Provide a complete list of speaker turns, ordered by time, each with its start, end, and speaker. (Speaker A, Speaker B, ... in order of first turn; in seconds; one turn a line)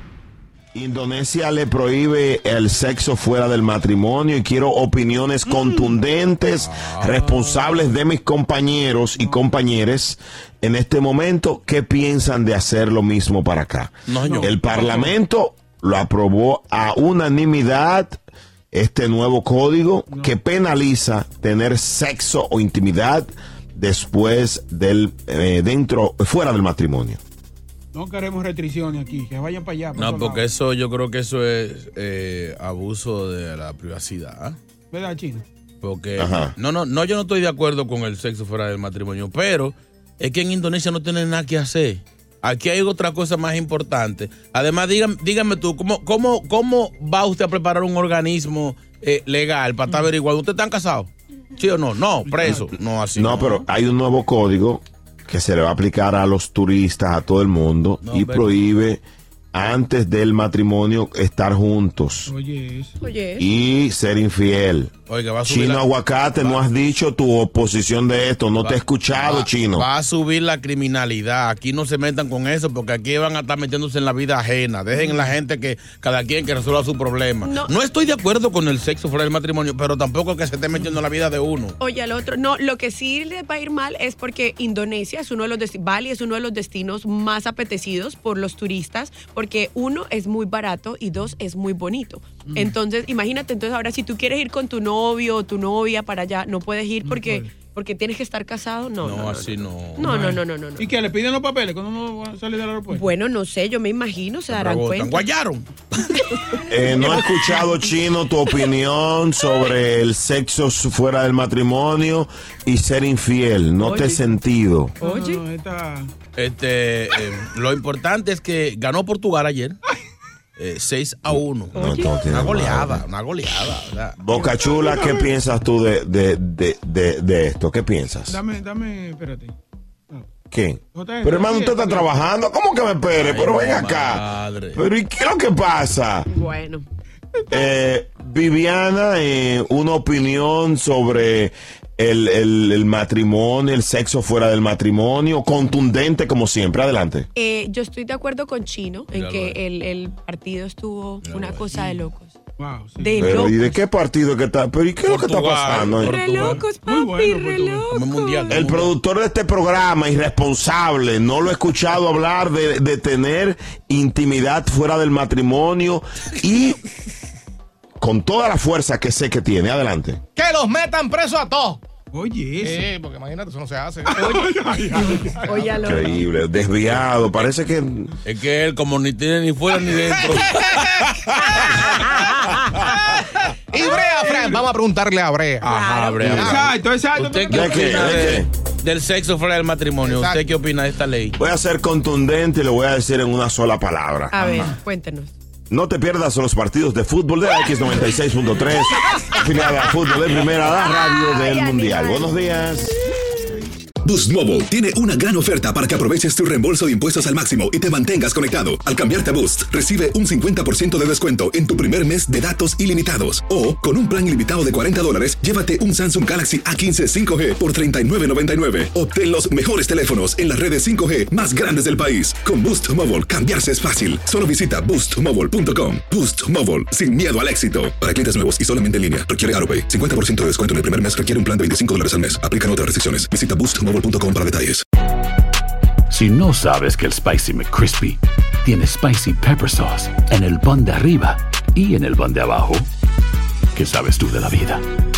Speaker A: 0.7-18.2
Speaker B: 6.6-7.3
Speaker B: 14.1-15.0
Speaker C: 14.2-15.1
Speaker A: 18.7-27.2
Speaker C: 20.1-20.4
Speaker C: 27.9-30.4
Speaker B: 29.9-34.6
Speaker C: 34.9-35.4
Speaker B: 35.8-53.6
Speaker A: 36.2-36.5
Speaker C: 52.2-52.7
Speaker A: 53.1-62.3
Speaker B: 58.0-58.7
Speaker C: 62.3-62.9
Speaker D: 63.0-63.5
Speaker A: 63.4-64.9
Speaker B: 65.1-66.7
Speaker A: 65.4-69.9
Speaker B: 68.5-81.8
Speaker D: 77.4-77.7
Speaker D: 81.8-100.9
Speaker C: 92.5-92.7
Speaker C: 97.0-97.5
Speaker B: 99.0-100.1
Speaker C: 100.0-103.0
Speaker D: 102.9-105.2
Speaker B: 104.5-106.1
Speaker D: 106.2-107.9
Speaker A: 106.7-114.9
Speaker D: 113.8-114.2
Speaker D: 115.0-115.4
Speaker C: 115.0-116.1
Speaker B: 116.3-119.8
Speaker B: 120.6-124.2
Speaker A: 121.3-123.0
Speaker D: 121.8-122.1
Speaker A: 124.2-128.4
Speaker C: 124.3-125.2
Speaker C: 128.3-129.5
Speaker A: 130.5-136.3
Speaker C: 130.9-132.1
Speaker B: 133.2-134.8
Speaker D: 136.3-136.8
Speaker A: 137.5-147.3
Speaker D: 147.3-152.3
Speaker B: 149.1-149.6
Speaker B: 151.2-151.7
Speaker C: 152.6-153.5
Speaker D: 153.0-153.6
Speaker A: 153.2-156.2
Speaker B: 155.0-156.7
Speaker D: 155.9-158.6
Speaker C: 156.3-157.8
Speaker B: 157.9-158.9
Speaker A: 158.5-166.8
Speaker A: 168.0-170.2
Speaker E: 170.3-171.8
Speaker C: 172.1-172.9
Speaker E: 172.6-174.3
Speaker D: 174.2-176.2
Speaker C: 174.3-175.4
Speaker A: 175.8-178.2
Speaker B: 178.2-183.2
Speaker E: 180.6-180.9
Speaker E: 181.5-185.7
Speaker B: 185.6-191.3
Speaker D: 185.6-186.4
Speaker E: 186.2-186.7
Speaker C: 186.4-188.2
Speaker A: 187.5-188.5
Speaker E: 190.0-190.5
Speaker A: 191.4-194.6
Speaker D: 194.3-195.3
Speaker A: 195.7-202.9
Speaker D: 199.0-199.4
Speaker B: 200.2-200.5
Speaker D: 200.6-202.4
Speaker F: 204.0-234.8
Speaker G: 236.1-242.9
Speaker G: 243.7-244.8